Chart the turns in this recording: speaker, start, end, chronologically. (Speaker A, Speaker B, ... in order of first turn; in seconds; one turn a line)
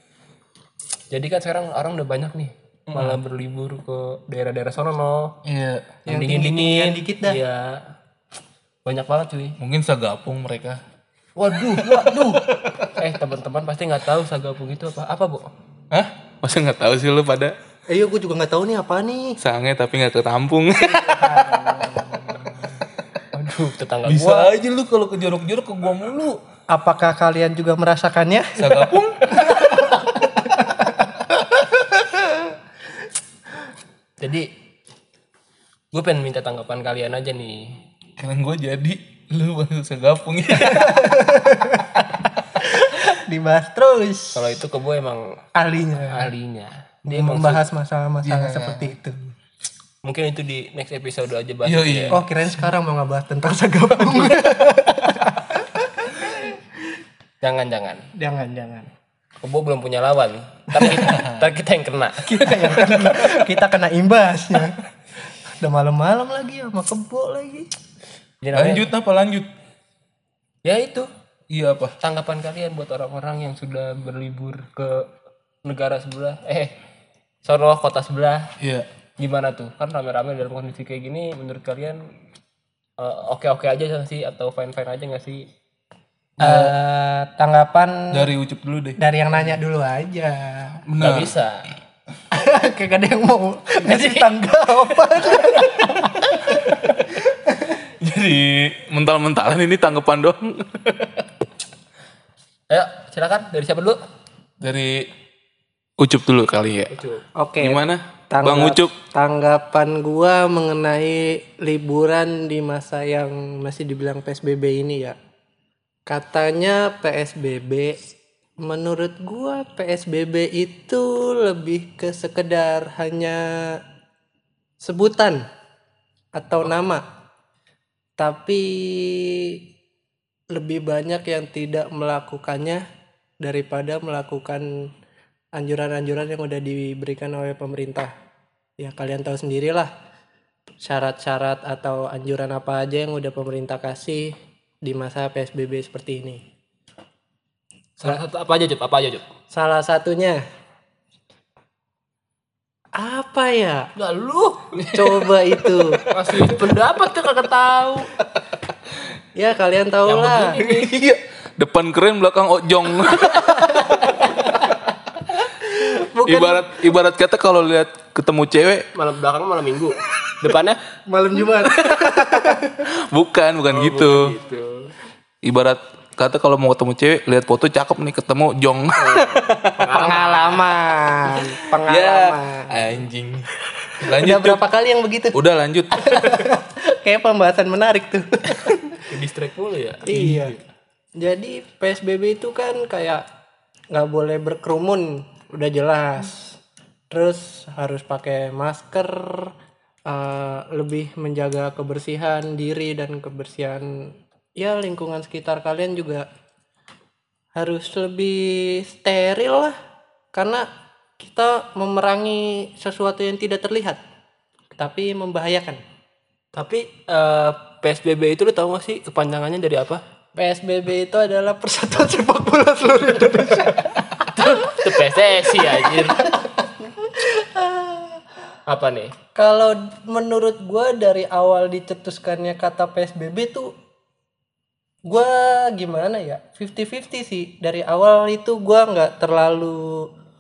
Speaker A: 1.1-5.4
Speaker B: 5.5-5.9
Speaker C: 6.1-7.4
Speaker A: 6.1-7.8
Speaker A: 8.8-9.6
Speaker B: 9.6-10.8
Speaker A: 11.4-15.5
Speaker B: 11.8-12.9
Speaker C: 12.0-12.3
Speaker B: 15.9-17.6
Speaker C: 17.9-19.4
Speaker B: 19.4-21.9
Speaker C: 20.9-22.4
Speaker A: 23.3-24.5
Speaker B: 24.1-26.4
Speaker C: 26.7-31.0
Speaker B: 28.6-29.4
Speaker A: 34.2-34.5
Speaker A: 35.9-37.8
Speaker B: 38.2-41.1
Speaker C: 40.6-44.6
Speaker A: 44.3-45.4
Speaker C: 45.5-46.3
Speaker A: 46.1-47.7
Speaker C: 47.1-49.2
Speaker B: 48.2-49.0
Speaker A: 50.0-52.2
Speaker B: 51.6-52.3
Speaker C: 52.1-56.6
Speaker A: 57.4-58.1
Speaker C: 58.1-58.9
Speaker A: 59.4-63.4
Speaker B: 60.9-61.5
Speaker C: 62.3-64.8
Speaker C: 65.6-67.7
Speaker A: 68.4-68.9
Speaker B: 68.5-69.5
Speaker A: 70.7-71.1
Speaker B: 71.5-72.0
Speaker A: 72.0-75.1
Speaker A: 75.7-76.7
Speaker A: 77.5-78.5
Speaker B: 78.6-78.9
Speaker A: 79.2-82.1
Speaker A: 83.0-85.5
Speaker B: 86.4-86.7
Speaker C: 86.4-88.3
Speaker B: 88.1-89.0
Speaker C: 89.0-90.8
Speaker B: 90.9-91.3
Speaker A: 91.0-91.7
Speaker C: 92.3-97.8
Speaker A: 93.8-94.3
Speaker A: 95.2-95.7
Speaker B: 97.9-101.3
Speaker A: 102.7-104.0
Speaker B: 104.6-105.1
Speaker B: 106.0-106.9
Speaker A: 106.9-107.2
Speaker C: 107.4-115.2
Speaker B: 107.6-108.9
Speaker C: 116.1-118.0
Speaker C: 118.6-123.8
Speaker C: 124.8-125.4
Speaker C: 126.4-127.0
Speaker C: 128.2-129.6
Speaker C: 130.5-132.8
Speaker C: 133.4-134.7
Speaker C: 135.6-138.1
Speaker C: 138.8-139.9
Speaker C: 140.8-146.4
Speaker A: 148.0-149.2
Speaker C: 149.5-150.4
Speaker C: 152.9-153.9
Speaker A: 153.9-158.1
Speaker C: 154.9-156.0
Speaker C: 159.3-160.6
Speaker A: 160.1-161.0
Speaker B: 160.6-164.1
Speaker C: 163.5-164.1
Speaker A: 164.0-164.5
Speaker C: 165.4-166.8
Speaker B: 166.2-168.9
Speaker A: 168.9-170.8
Speaker C: 171.1-172.8
Speaker B: 171.7-172.1
Speaker B: 172.9-174.3
Speaker A: 173.7-174.9
Speaker B: 175.4-179.7
Speaker A: 179.0-180.7
Speaker C: 179.9-182.9
Speaker B: 181.8-184.6
Speaker C: 184.0-185.4
Speaker B: 185.3-186.4
Speaker C: 185.9-189.0
Speaker A: 189.1-190.4
Speaker C: 190.1-190.6
Speaker B: 190.1-190.5
Speaker C: 191.2-193.2
Speaker C: 193.9-196.6
Speaker C: 197.1-199.5
Speaker C: 200.1-206.3
Speaker C: 207.6-209.8
Speaker C: 210.3-210.7
Speaker C: 211.2-214.0
Speaker C: 214.8-215.8
Speaker A: 216.6-220.0
Speaker C: 220.4-228.2
Speaker A: 224.3-226.3
Speaker A: 228.7-229.1
Speaker C: 229.3-233.7
Speaker C: 235.1-240.1